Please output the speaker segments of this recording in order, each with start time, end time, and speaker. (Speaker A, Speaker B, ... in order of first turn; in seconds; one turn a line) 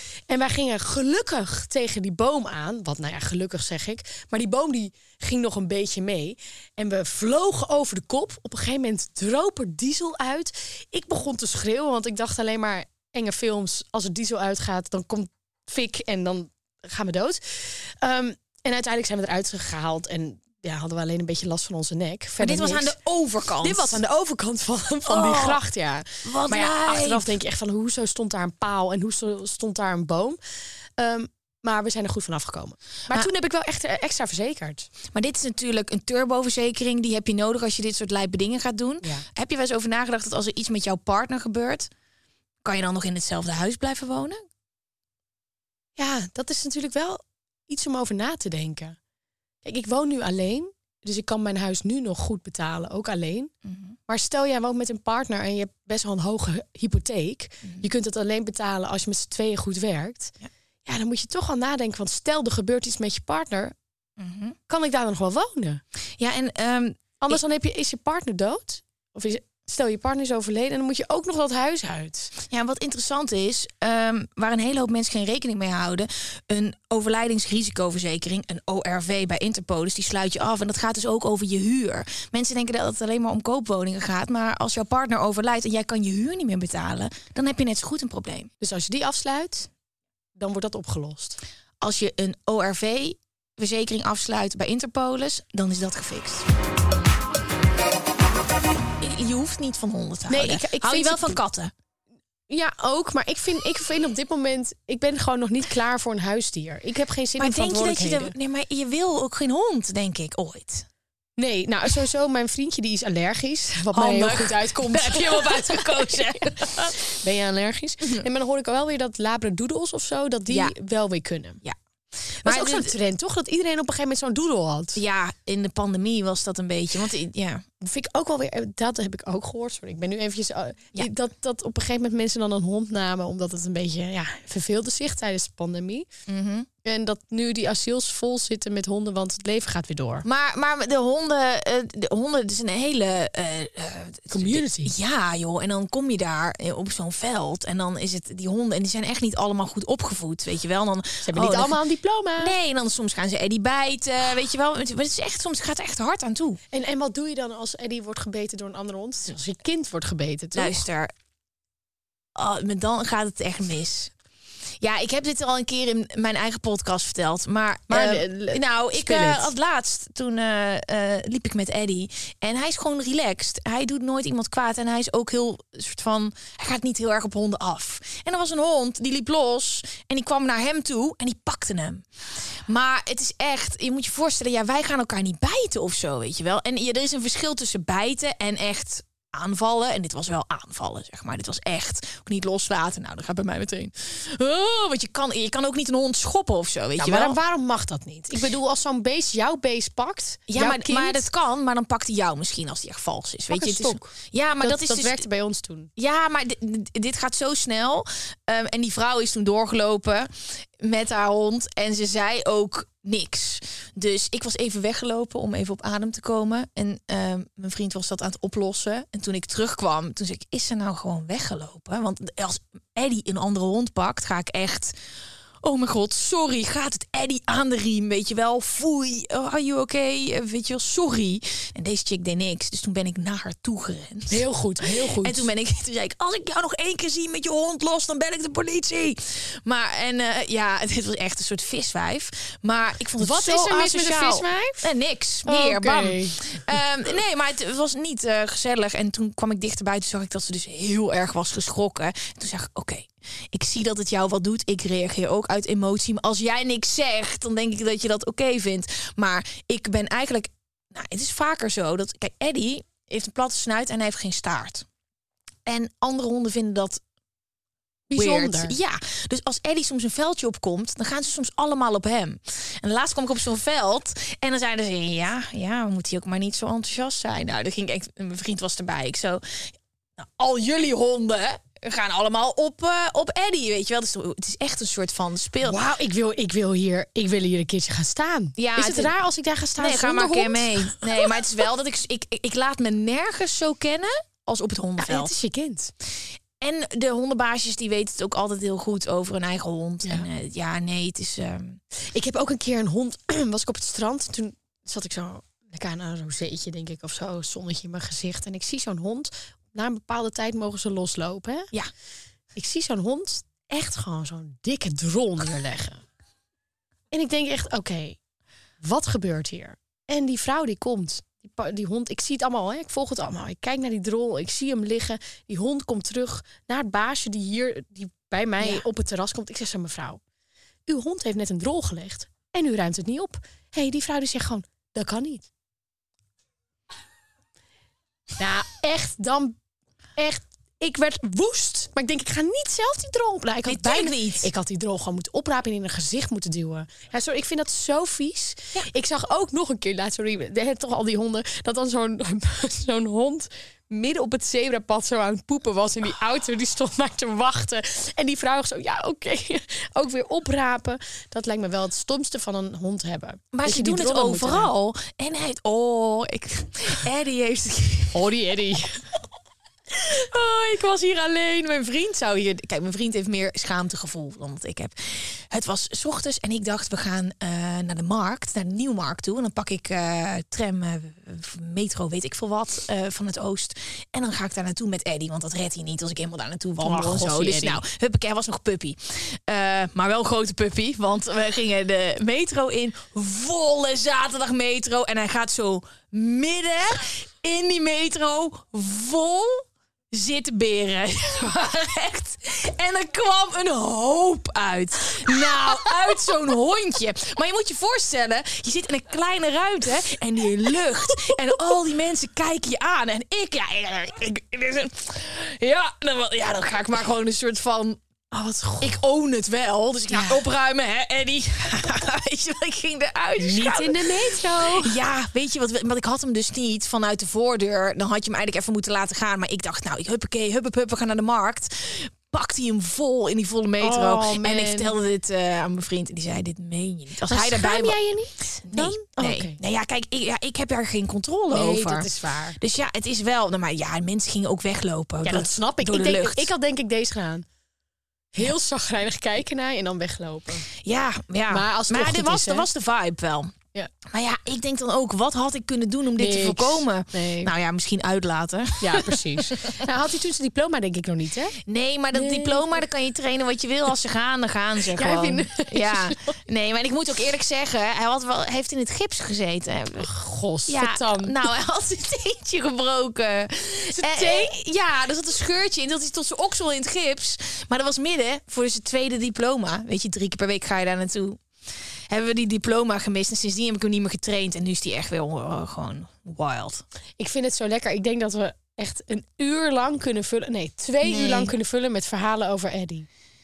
Speaker A: 0.3-22.9
Speaker B: 22.4-24.0
Speaker A: 23.6-30.4
Speaker B: 25.1-25.6
Speaker B: 26.2-27.3
Speaker A: 31.0-34.9
Speaker B: 35.1-41.9
Speaker B: 42.6-44.4
Speaker A: 46.0-49.0
Speaker A: 49.6-53.5
Speaker B: 53.6-54.0
Speaker A: 54.1-63.8
Speaker B: 64.2-64.6
Speaker A: 64.7-65.8
Speaker B: 66.2-67.4
Speaker A: 67.2-72.3
Speaker B: 72.5-88.5
Speaker A: 88.6-89.7
Speaker A: 90.4-91.4
Speaker B: 91.8-96.5
Speaker B: 99.0-101.7
Speaker A: 100.3-101.4
Speaker A: 102.5-108.3
Speaker B: 107.4-110.9
Speaker A: 111.4-121.6
Speaker B: 113.9-117.0
Speaker B: 120.5-120.8
Speaker B: 122.4-122.9
Speaker A: 122.4-125.0
Speaker B: 125.0-127.7
Speaker A: 127.8-136.1
Speaker B: 136.3-136.7
Speaker A: 136.8-140.2
Speaker B: 140.2-151.8
Speaker A: 144.3-144.9
Speaker A: 151.2-152.6
Speaker B: 152.4-156.6
Speaker A: 156.7-160.8
Speaker B: 160.5-161.1
Speaker B: 162.4-164.1
Speaker B: 164.8-182.1
Speaker A: 167.9-169.5
Speaker B: 182.7-197.4
Speaker A: 197.0-201.2
Speaker B: 200.5-205.2
Speaker A: 203.5-205.9
Speaker B: 206.0-224.9
Speaker B: 225.6-264.9
Speaker A: 234.3-235.5
Speaker A: 243.2-244.9
Speaker A: 245.4-246.4
Speaker B: 265.6-267.0
Speaker A: 268.1-268.8
Speaker B: 268.2-285.8
Speaker A: 285.6-291.3
Speaker B: 288.6-289.1
Speaker B: 289.8-295.3
Speaker A: 295.0-295.9
Speaker B: 296.6-301.8
Speaker A: 302.0-311.7
Speaker A: 312.6-316.0
Speaker A: 317.1-318.2
Speaker A: 318.8-330.2
Speaker B: 328.6-328.9
Speaker A: 330.9-335.5
Speaker A: 338.4-339.6
Speaker A: 340.2-364.7
Speaker B: 343.6-344.5
Speaker B: 363.5-368.2
Speaker A: 368.1-369.0
Speaker B: 370.1-418.0
Speaker A: 386.8-387.8
Speaker A: 418.3-419.0
Speaker B: 418.8-438.0
Speaker A: 420.1-420.4
Speaker A: 423.4-425.0
Speaker A: 433.8-434.9
Speaker A: 437.2-439.6
Speaker B: 438.6-446.5
Speaker A: 441.5-442.6
Speaker A: 445.2-447.4
Speaker A: 448.3-450.7
Speaker B: 450.8-453.6
Speaker A: 451.5-452.7
Speaker B: 454.1-459.8
Speaker A: 456.2-457.5
Speaker A: 458.8-461.6
Speaker B: 461.6-470.1
Speaker A: 462.1-462.8
Speaker A: 464.9-466.3
Speaker A: 470.0-471.4
Speaker B: 470.7-481.4
Speaker A: 473.9-474.5
Speaker B: 482.1-486.9
Speaker A: 487.2-493.1
Speaker B: 491.0-491.5